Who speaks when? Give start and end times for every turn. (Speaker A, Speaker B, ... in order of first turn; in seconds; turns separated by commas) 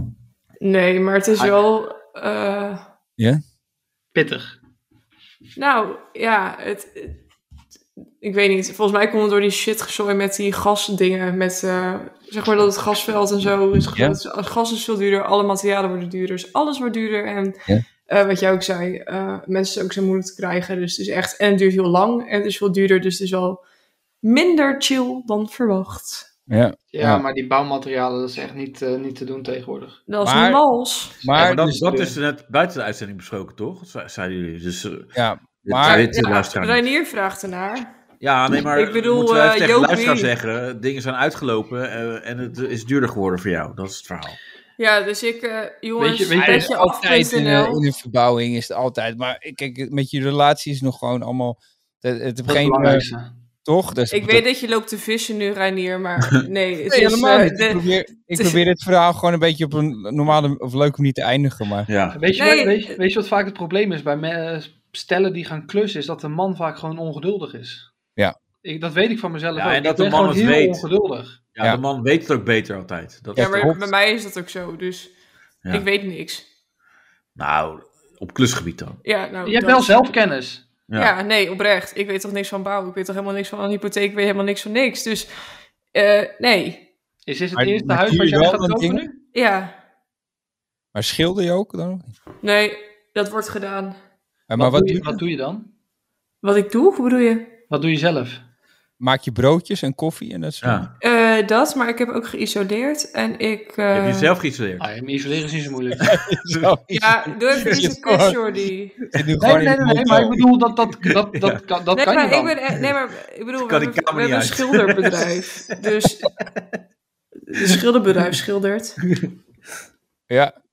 Speaker A: 0.6-2.8, Speaker B: 4.1-4.5, Speaker A: 5.5-7.2, Speaker A: 8.2-23.6, Speaker A: 24.2-26.3, Speaker C: 26.5-27.2, Speaker B: 26.9-30.0, Speaker A: 30.1-31.2, Speaker C: 30.2-30.6, Speaker C: 31.2-31.9, Speaker D: 31.3-35.1, Speaker B: 31.8-32.1, Speaker C: 35.1-36.1, Speaker D: 35.6-36.8, Speaker A: 35.8-37.9, Speaker D: 38.2-44.4, Speaker A: 38.7-40.3, Speaker A: 44.8-47.8, Speaker B: 46.0-46.7, Speaker C: 46.4-53.0, Speaker B: 52.5-53.3, Speaker C: 53.6-54.4, Speaker A: 54.1-58.6, Speaker C: 56.9-61.9, Speaker D: 61.9-62.2, Speaker B: 62.1-67.9, Speaker A: 62.3-63.0, Speaker B: 68.6-71.4, Speaker D: 69.5-70.8, Speaker D: 71.5-73.7, Speaker C: 73.3-73.8, Speaker A: 73.3-75.1, Speaker A: 75.7-76.4, Speaker D: 77.3-79.0, Speaker A: 79.0-80.1, Speaker B: 79.4-80.6, Speaker A: 81.0-85.3, Speaker A: 85.9-86.8, Speaker B: 87.3-89.1, Speaker C: 87.5-89.0, Speaker A: 89.3-89.7, Speaker C: 90.9-92.1, Speaker A: 92.4-94.0, Speaker C: 94.5-95.2, Speaker B: 94.5-95.7, Speaker A: 96.4-97.5, Speaker B: 97.7-98.4, Speaker C: 99.0-100.9, Speaker D: 100.6-100.9, Speaker A: 101.0-104.3, Speaker D: 103.9-104.8, Speaker B: 104.8-106.1, Speaker D: 106.1-106.7, Speaker C: 106.1-108.4, Speaker A: 106.9-109.0, Speaker C: 109.1-110.5, Speaker B: 109.4-112.5, Speaker D: 111.1-111.6, Speaker A: 111.9-116.3, Speaker D: 113.6-115.3, Speaker A: 117.5-119.0